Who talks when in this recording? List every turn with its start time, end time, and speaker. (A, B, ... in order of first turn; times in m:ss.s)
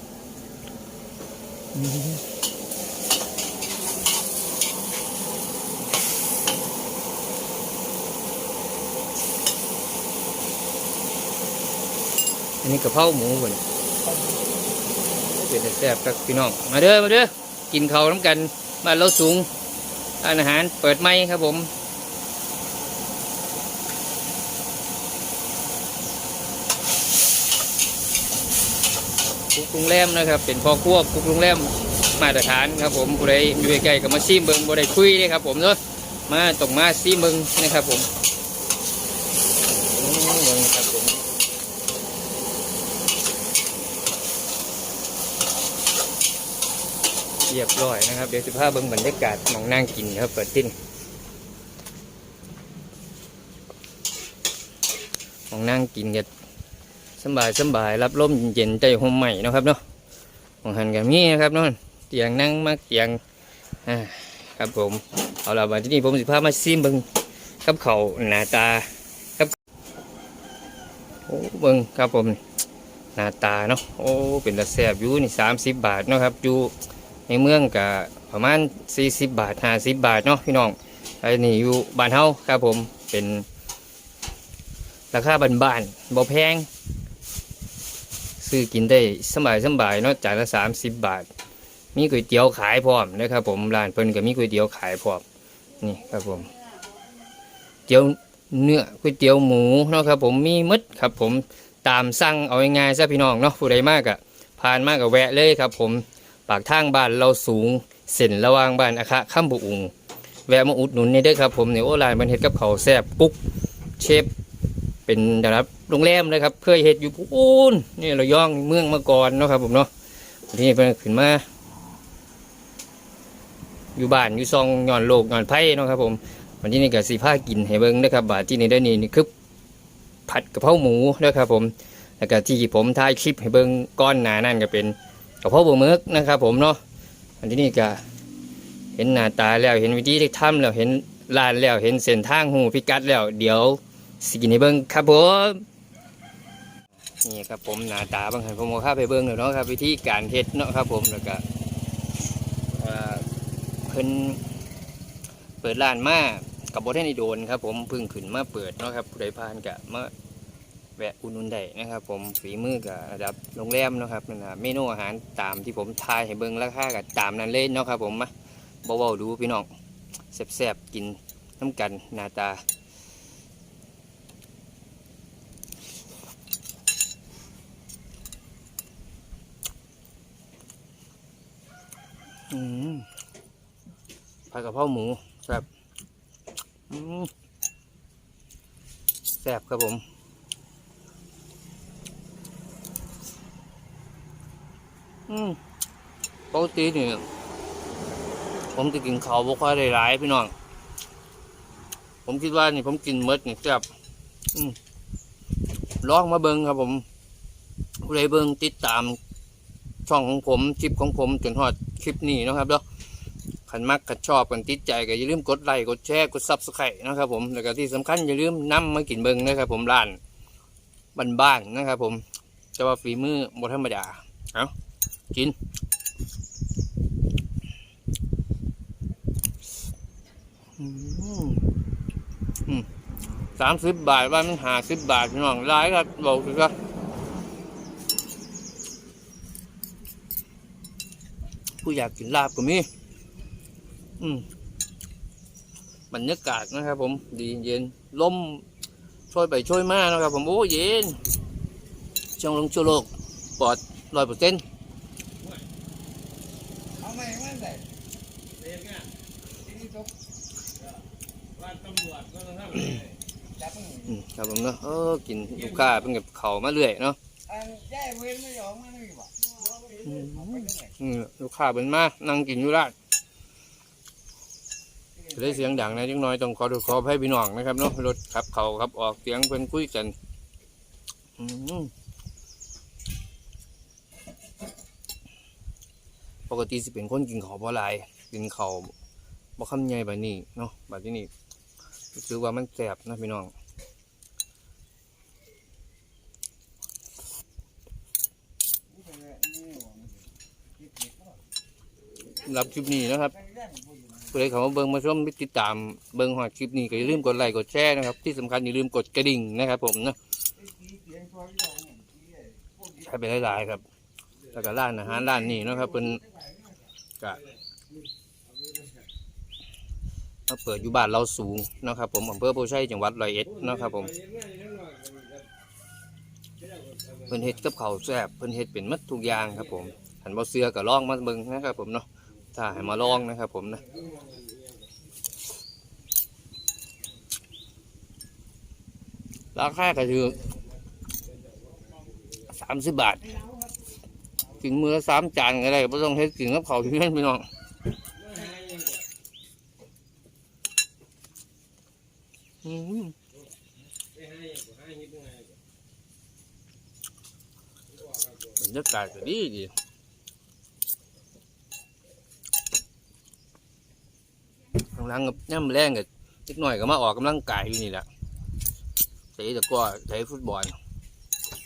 0:01.8-0:02.2 A
0:12.6-0:13.6 A
0:15.3-0:19.5 A
0:20.2-0:21.7 A
0:29.5-0:38.1 A
0:39.7-0:41.2 A
0:47.5-0:50.7 A
0:55.5-0:56.3 A
0:57.2-0:59.8 A
1:00.6-1:03.2 A
1:03.8-1:07.0 A
1:07.6-1:08.9 A
1:11.3-1:12.4 A
1:13.2-1:16.7 A
1:17.3-1:23.4 A
1:25.1-1:26.7 A
1:28.4-1:31.3 A
1:31.9-1:35.2 A
1:35.8-1:36.6 A
1:37.9-1:49.9 A
1:50.5-1:53.4 A
1:54.0-1:54.3 A
1:55.1-1:59.9 A
2:00.5-2:01.4 A
2:04.0-2:09.3 A
2:10.3-2:16.8 A
2:17.4-2:18.0 A
2:19.0-2:25.6 A
2:27.2-2:31.4 A
2:32.7-2:33.2 A
2:33.9-2:34.4 A
2:35.6-2:40.1 A
2:41.0-2:48.3 A
2:48.8-2:49.7 A
2:50.3-2:52.6 A
3:02.5-3:03.1 A
3:04.5-3:05.6 A
3:06.9-3:07.3 A
3:09.4-3:10.0 A
3:15.3-3:15.6 A
3:16.5-3:17.2 A
3:18.7-3:20.5 A
3:22.2-3:23.8 A
3:26.0-3:27.0 A
3:28.0-3:29.2 A
3:30.1-3:32.8 A
3:33.7-3:40.2 A
3:41.1-3:42.2 A
3:42.8-3:44.7 A
3:50.8-3:51.6 A
3:53.6-3:56.7 A
4:01.8-4:02.9 A
4:04.2-4:04.4 A
4:06.1-4:08.6 A
4:09.3-4:11.2 A
4:12.4-4:14.6 A
4:15.4-4:15.6 B
4:17.1-4:17.8 C
4:18.6-4:19.1 B
4:19.8-4:20.0 C
4:21.5-4:23.2 B
4:23.9-4:27.2 A
4:27.5-4:29.3 C
4:30.0-4:32.9 A
4:35.3-4:40.1 A
4:41.4-4:41.9 A
4:46.5-4:48.9 A
4:49.6-4:51.3 A
4:52.1-4:53.5 A
4:59.1-5:00.1 C
5:02.4-5:03.4 A
5:04.3-5:10.2 A
5:10.7-5:12.7 C
5:13.0-5:13.8 A
5:14.5-5:16.2 A
5:16.4-5:16.8 C
5:17.3-5:17.6 B
5:18.5-5:19.1 B
5:20.5-5:24.1 A
5:23.4-5:25.5 B
5:26.6-5:27.4 B
5:27.3-5:33.8 A
5:29.4-5:30.0 B
5:33.9-5:34.9 B
5:39.5-5:40.4 A
5:41.2-5:42.5 B
5:42.5-5:43.3 A
5:44.6-5:47.4 A
5:48.1-5:49.1 B
5:52.6-5:53.1 A
5:54.1-5:55.6 B
5:57.9-5:58.6 B
5:58.6-5:59.7 A
6:04.8-6:08.0 A
6:09.4-6:10.8 A